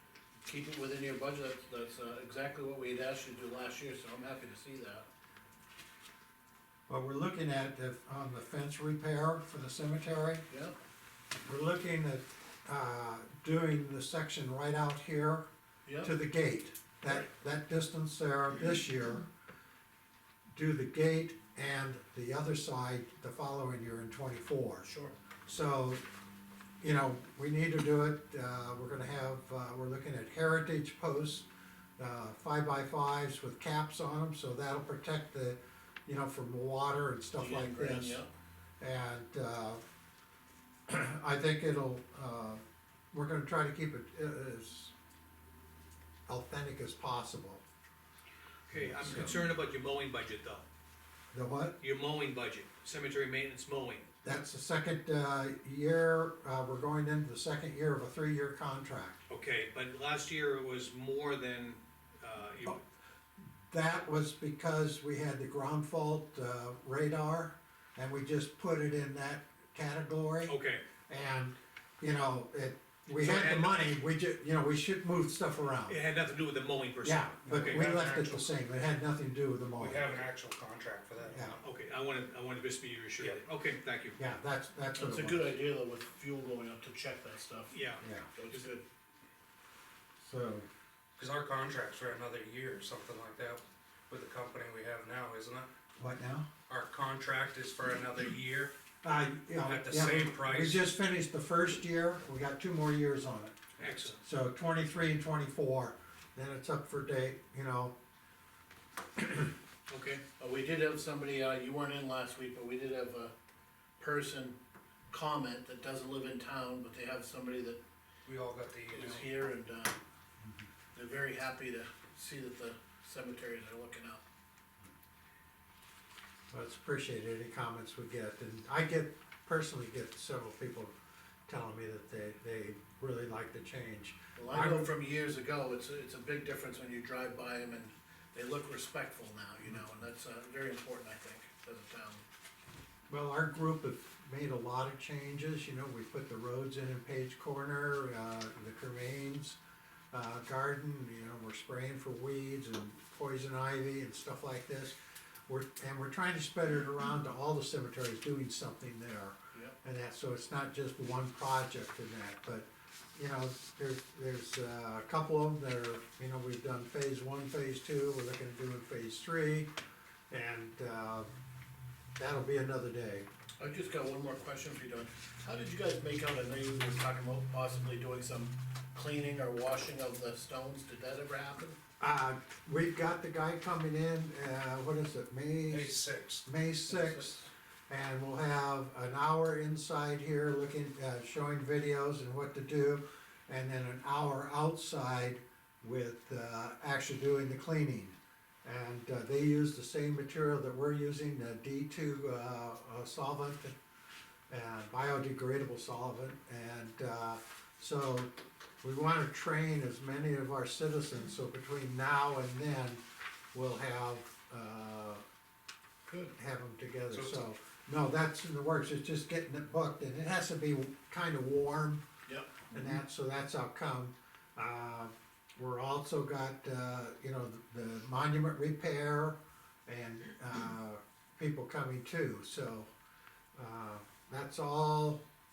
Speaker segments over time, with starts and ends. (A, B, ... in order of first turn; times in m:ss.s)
0:00.4-0:05.1 A
0:06.9-0:10.4 B
0:11.4-0:15.5 B
0:15.9-0:16.1 A
0:16.0-0:19.3 B
0:20.5-0:24.9 B
0:24.8-0:25.1 A
0:25.5-0:26.0 B
0:26.8-0:31.4 B
0:32.0-0:38.2 B
0:37.4-0:38.3 A
0:38.8-0:39.8 B
0:40.9-0:44.9 B
0:46.3-0:47.6 B
0:48.7-0:50.6 C
0:48.7-0:49.4 B
0:51.3-0:51.8 B
0:51.8-0:54.1 C
0:54.2-0:59.2 B
0:59.3-1:02.8 C
1:03.7-1:10.6 B
1:10.5-1:10.9 C
1:11.1-1:16.0 B
1:13.2-1:13.9 C
1:15.9-1:17.9 C
1:17.0-1:20.1 B
1:17.5-1:18.5 D
1:19.8-1:21.6 D
1:21.3-1:21.6 B
1:21.6-1:24.2 C
1:24.2-1:25.6 B
1:25.0-1:27.8 A
1:27.7-1:28.7 C
1:28.0-1:28.3 B
1:28.4-1:28.8 A
1:30.2-1:30.7 B
1:31.2-1:35.7 D
1:36.0-1:36.5 B
1:36.7-1:38.7 D
1:39.0-1:43.6 B
1:39.6-1:40.8 D
1:43.8-1:44.2 C
1:44.2-1:48.0 B
1:49.9-1:50.2 C
1:50.4-1:53.3 A
1:54.0-1:54.6 A
1:55.1-1:57.8 A
1:58.2-1:59.3 D
1:58.9-2:00.0 A
2:01.0-2:04.2 A
2:06.5-2:10.9 B
2:11.5-2:14.9 B
2:14.4-2:22.2 A
2:23.1-2:29.6 B
2:30.1-2:35.0 B
2:35.5-2:49.7 B
2:50.3-2:51.3 B
2:52.2-2:53.3 B
2:53.6-3:01.8 A
3:02.0-3:23.8 B
3:05.7-3:06.4 D
3:06.9-3:07.4 A
3:24.5-3:33.0 B
3:33.5-3:35.2 B
3:36.1-3:36.4 A
3:36.4-3:42.0 B
3:42.3-3:42.6 A
3:42.7-3:52.9 B
3:53.6-3:55.2 B